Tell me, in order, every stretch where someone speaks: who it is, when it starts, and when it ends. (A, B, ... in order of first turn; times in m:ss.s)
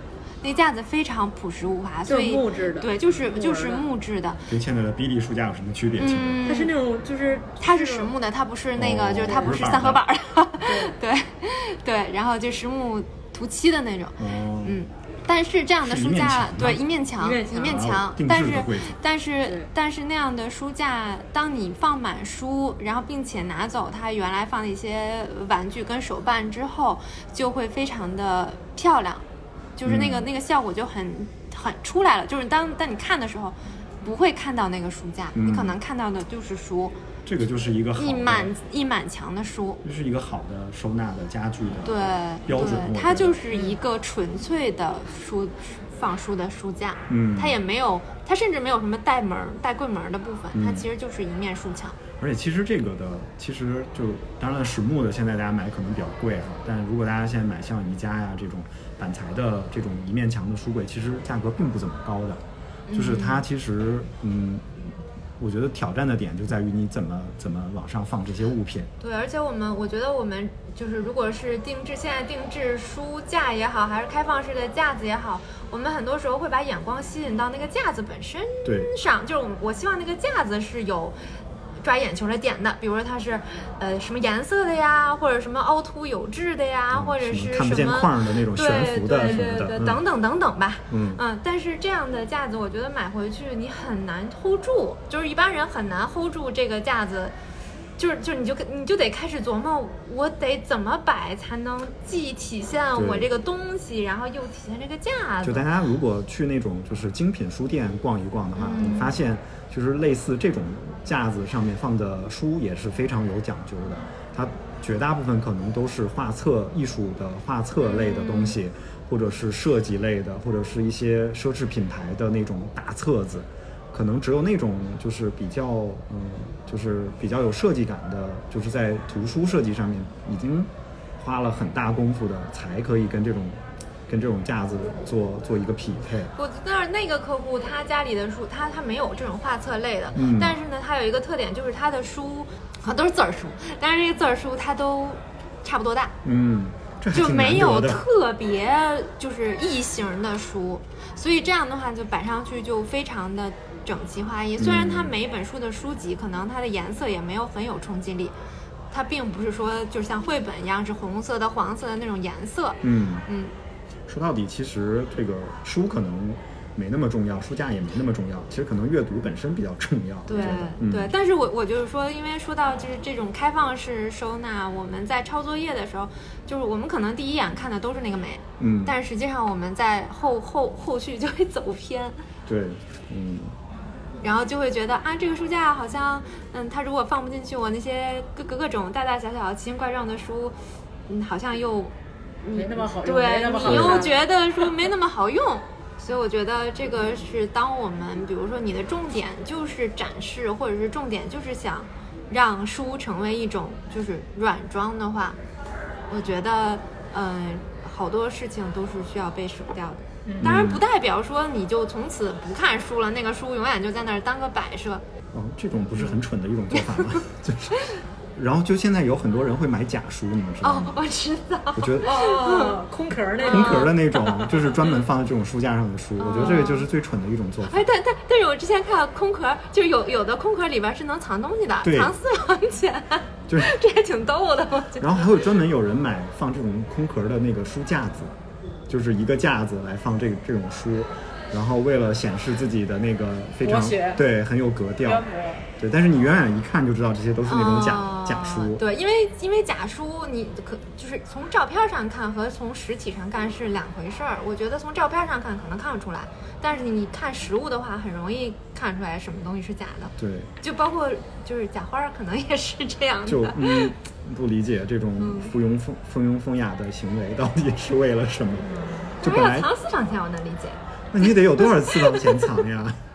0:00.4-0:04.5 A
0:02.1-0:03.9 B
0:04.5-0:06.4 C
0:06.0-0:06.8 A
0:06.5-0:08.1 B
0:07.6-0:29.2 A
0:08.8-0:10.0 C
0:10.6-0:10.9 B
0:14.2-0:14.8 C
0:15.8-0:16.8 C
0:17.2-0:17.8 B
0:17.6-0:19.0 C
0:29.8-0:37.0 A
0:29.9-0:30.3 C
0:35.3-0:35.8 C
0:37.3-0:38.5 C
0:38.0-0:39.8 A
0:39.8-0:43.4 C
0:41.8-0:52.0 A
0:47.1-0:47.6 C
0:50.5-0:50.9 C
0:52.2-1:04.8 C
1:02.9-1:03.4 A
1:05.4-1:08.9 C
1:09.0-1:21.2 A
1:21.8-1:37.4 A
1:26.9-1:30.0 C
1:30.9-1:31.2 C
1:38.0-1:45.7 A
1:42.9-1:43.3 C
1:45.4-2:16.3 C
1:48.6-1:49.2 A
1:57.8-1:58.6 A
2:16.4-2:26.2 A
2:20.1-2:20.6 C
2:26.2-2:28.0 C
2:27.1-2:38.3 A
2:34.6-2:35.1 C
2:38.9-2:43.5 A
2:42.8-2:43.3 C
2:44.1-2:51.1 C
2:50.3-3:02.2 A
2:58.6-2:59.0 C
3:02.5-3:03.5 C
3:04.2-3:10.6 A
3:11.1-3:25.4 A
3:12.6-3:14.2 B
3:13.6-3:14.1 C
3:26.1-3:35.0 A
3:30.4-3:30.8 C
3:35.3-3:41.0 C
3:36.8-3:37.0 A
3:40.6-3:42.8 A
3:41.8-3:42.2 C
3:42.0-3:44.5 B
3:43.4-3:43.9 A
3:43.4-3:47.9 C
3:46.2-3:46.9 A
3:47.6-3:55.2 A
3:51.8-3:52.1 C
3:55.0-3:58.4 C
3:58.9-4:05.3 C
4:03.6-4:04.2 B
4:05.0-4:05.6 B
4:05.8-4:08.8 C
4:07.5-4:24.0 A
4:20.2-4:20.5 C
4:23.3-4:29.7 C
4:25.2-4:25.5 A
4:29.0-4:32.6 A
4:31.1-4:33.0 C